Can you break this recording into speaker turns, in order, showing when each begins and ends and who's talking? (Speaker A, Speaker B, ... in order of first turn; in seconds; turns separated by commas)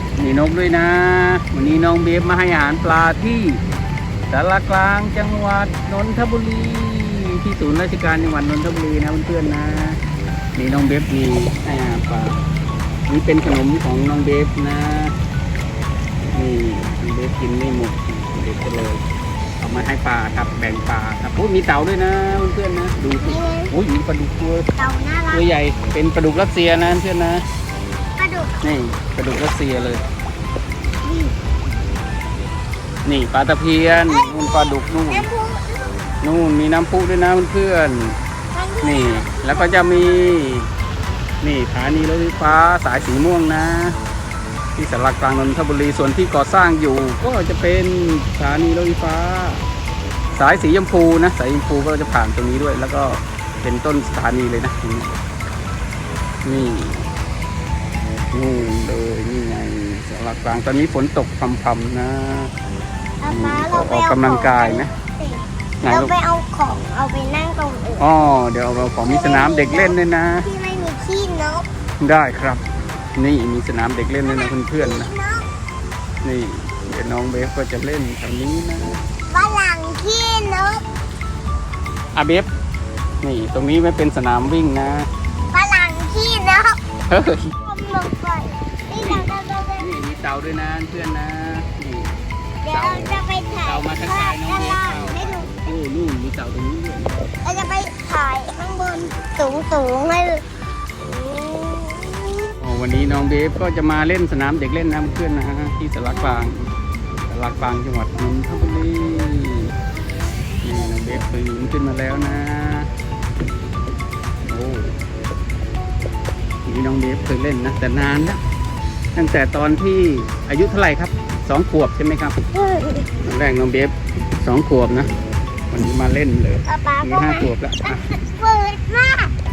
Speaker A: 0.2-3.6, Speaker A: 4.3-10.0, Speaker A: 10.6-12.4, Speaker A: 13.1-15.1, Speaker A: 16.3-19.0, Speaker A: 19.6-24.7, Speaker B: 23.2-23.7, Speaker B: 24.8-25.5, Speaker A: 25.3-27.4, Speaker B: 28.2-28.6, Speaker A: 28.6-30.0, Speaker B: 31.0-31.3, Speaker A: 33.0-35.3, Speaker B: 34.0-36.0, Speaker A: 36.2-38.1, Speaker B: 38.5-40.4, Speaker A: 38.8-40.7, Speaker A: 41.4-44.0, Speaker A: 44.8-49.6, Speaker A: 50.3-55.1, Speaker A: 56.4-57.1, Speaker A: 58.3-62.5, Speaker B: 63.2-68.0, Speaker A: 63.3-64.9, Speaker A: 65.8-66.1, Speaker A: 68.0-70.5, Speaker B: 69.0-71.7, Speaker A: 72.0-72.6, Speaker A: 73.2-75.1, Speaker B: 74.2-75.5, Speaker A: 76.2-79.0, Speaker B: 79.3-80.8, Speaker A: 82.1-82.5, Speaker A: 83.2-85.1, Speaker B: 85.5-86.8, Speaker A: 87.1-87.5, Speaker B: 87.6-89.9, Speaker A: 89.0-92.2, Speaker B: 92.6-95.7, Speaker A: 92.7-97.1, Speaker B: 97.4-100.4, Speaker B: 101.1-102.4, Speaker A: 102.6-106.7, Speaker A: 107.3-109.7, Speaker A: 110.6-112.9, Speaker A: 114.5-114.9, Speaker A: 116.6-118.4, Speaker A: 119.1-122.4, Speaker B: 122.5-123.1, Speaker A: 123.2-125.1, Speaker A: 125.7-128.0, Speaker B: 126.7-129.3